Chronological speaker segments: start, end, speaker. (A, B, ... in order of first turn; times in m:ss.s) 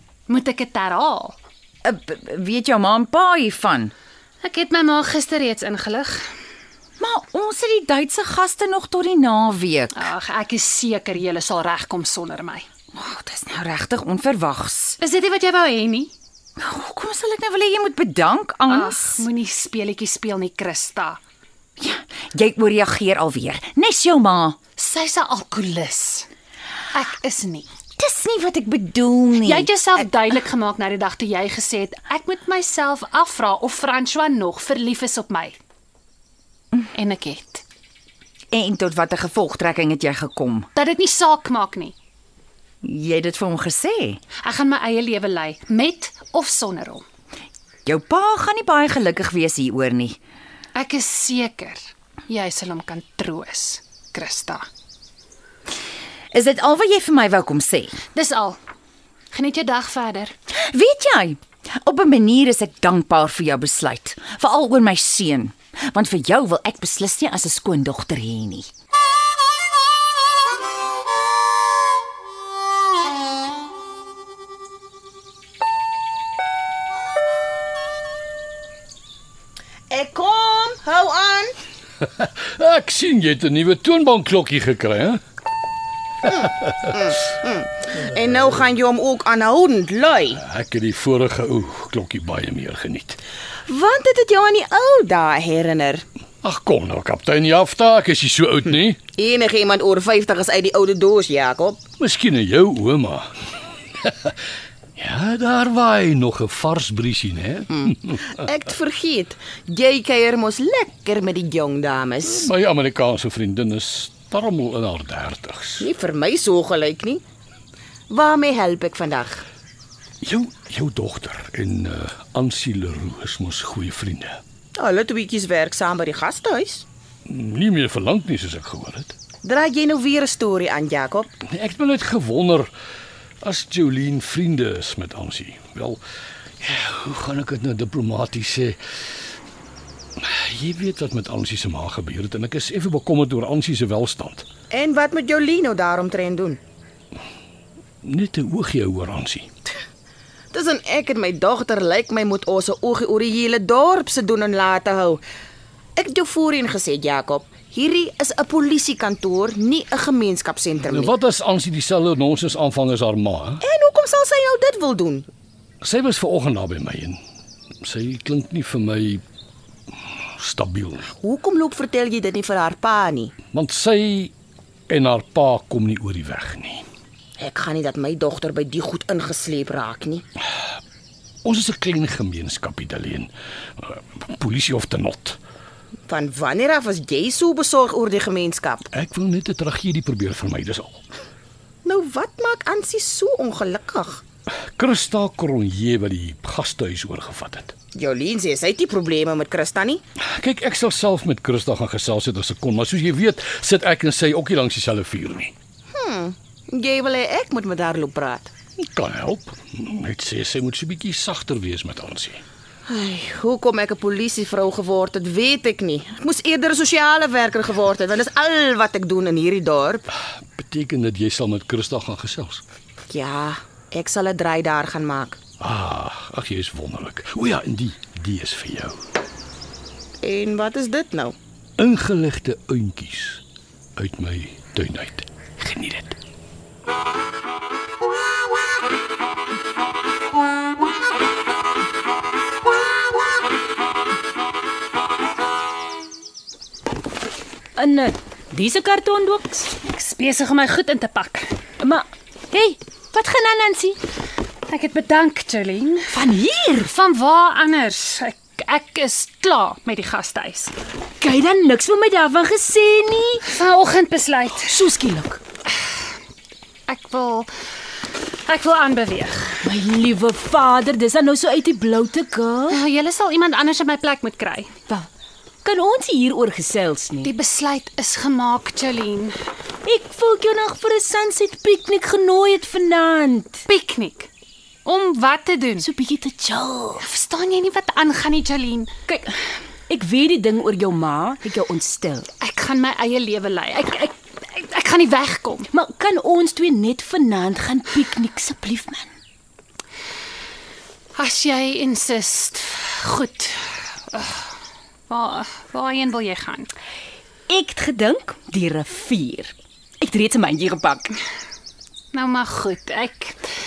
0:00.3-0:01.4 A
0:01.8-0:03.9 B
0:04.4-0:06.2 A
0:07.0-0:10.0 B
0:09.9-0:12.6 A
0:12.9-0:15.0 B
0:15.0-0:16.1 A
0:16.6-0:19.3 B
0:18.7-0:21.2 A
0:21.8-0:24.6 B
0:24.8-0:26.2 A
0:26.9-0:27.7 A
0:28.0-0:29.7 B
0:29.4-0:35.6 A
0:36.9-0:37.6 A
0:38.5-0:40.7 B
0:40.7-0:41.9 A
0:42.8-0:44.2 B
0:44.4-0:47.0 A
0:47.8-0:50.2 B
0:50.7-0:54.7 A
0:56.3-0:58.0 B
0:58.1-0:58.6 A
0:59.3-1:00.3 A
1:00.7-1:08.7 B
1:19.9-1:21.5 C
1:22.1-1:25.2 D
1:26.2-1:30.4 C
1:30.3-1:33.2 D
1:33.7-1:36.0 C
1:36.4-1:39.0 D
1:39.2-1:41.8 C
1:42.0-1:43.3 D
1:44.0-1:44.3 D
1:45.0-1:48.2 D
1:47.7-1:52.5 C
1:52.2-1:55.9 D
1:55.8-1:57.2 C
1:58.1-1:59.4 C
2:00.2-2:04.4 D
2:04.8-2:06.8 C
2:07.3-2:09.2 D
2:09.4-2:11.3 C
2:11.5-2:12.7 D
2:13.4-2:16.0 D
2:16.6-2:18.8 D
2:20.2-2:24.5 D
2:24.7-2:26.6 C
2:28.0-2:29.5 D
2:30.5-2:35.2 C
2:36.0-2:41.1 C
2:40.8-2:43.6 D
2:43.6-2:45.3 C
2:45.8-2:47.2 D
2:47.8-2:49.2 D
2:50.4-2:51.1 D
2:51.2-2:53.3 C
2:53.5-2:54.3 D
2:54.9-2:56.9 D
2:57.4-3:00.2 C
3:01.4-3:05.4 D
3:06.1-3:08.9 C
3:08.9-3:11.0 D
3:11.8-3:14.2 C
3:14.8-3:17.7 D
3:17.9-3:20.0 C
3:20.2-3:25.5 D
3:25.9-3:28.5 C
3:28.8-3:32.4 D
3:32.9-3:40.0 C
3:40.5-3:42.6 D
3:43.1-3:45.4 C
3:45.6-3:49.0 D
3:50.2-3:51.4 C
3:51.8-3:53.4 D
3:54.0-3:56.2 D
4:07.8-4:09.7 E
4:09.8-4:11.6 A
4:11.8-4:14.0 E
4:14.7-4:16.2 A
4:16.1-4:16.9 E
4:16.8-4:20.7 A
4:21.2-4:23.5 E
4:23.4-4:24.8 A
4:24.6-4:25.4 E
4:26.9-4:27.5 A
4:28.5-4:29.6 A
4:29.6-4:32.8 E
4:32.7-4:34.7 A
4:35.6-4:37.3 E
4:37.2-4:39.3 A
4:39.8-4:43.6 E
4:43.7-4:44.3 A
4:44.8-4:45.9 A
4:45.8-4:47.0 E
4:47.0-4:48.9 A
4:49.1-4:52.3 E
4:52.4-4:55.7 A
4:55.7-4:59.1 E
5:01.1-5:04.4 A
5:05.1-5:06.7 A
5:07.5-5:11.2 E
5:12.1-5:13.4 A